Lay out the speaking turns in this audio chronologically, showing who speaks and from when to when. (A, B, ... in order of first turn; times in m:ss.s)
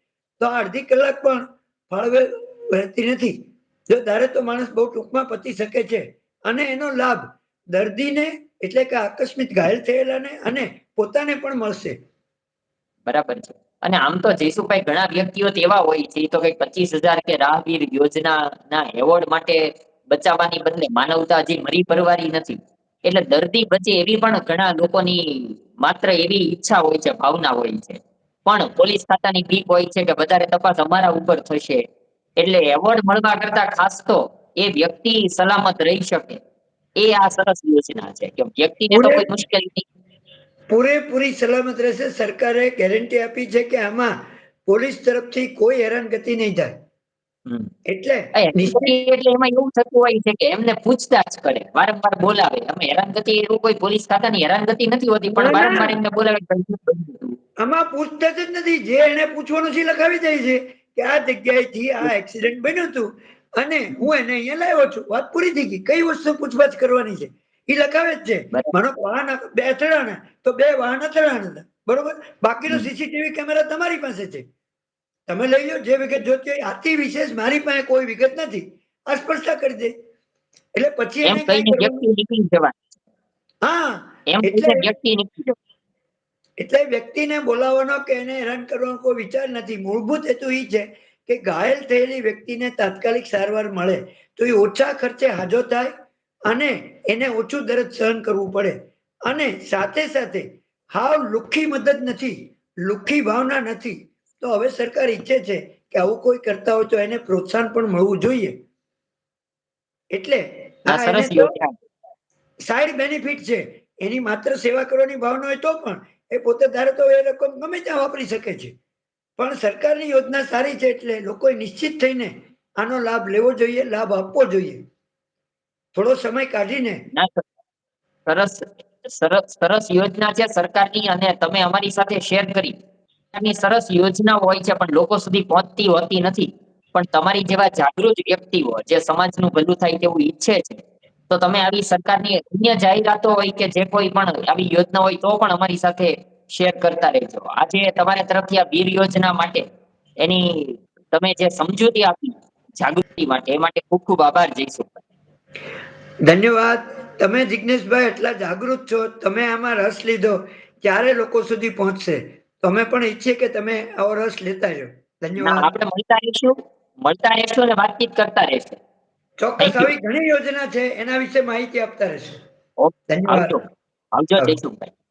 0:00.4-0:12.0 A
0:13.1-0:31.8 B
0:32.4-0:36.4 B
0:37.0-0:39.9 B
0:38.9-0:39.3 A
0:40.7-0:44.1 A
0:44.7-0:46.7 A
0:47.9-0:49.0 A
0:48.4-0:57.4 B
0:55.3-0:55.9 A
0:57.6-1:14.4 A
1:15.3-1:19.9 A
1:20.8-1:22.0 A
1:21.2-1:22.8 B
1:23.6-1:24.9 A
1:24.3-1:25.6 B
1:26.6-1:35.9 A
1:36.5-1:48.6 A
1:50.1-1:51.5 A
1:50.9-1:51.7 B
1:52.7-1:58.7 A
1:59.4-2:04.8 A
2:05.9-2:07.0 A
2:07.1-2:07.5 B
2:08.3-2:12.8 B
2:13.3-2:29.6 B
2:30.2-2:35.0 B
2:36.2-2:45.7 A
2:45.4-2:48.8 B
2:49.4-2:52.4 A
2:49.6-2:49.9 B
2:52.8-2:53.6 B
2:53.1-2:53.6 A
2:54.1-2:54.9 B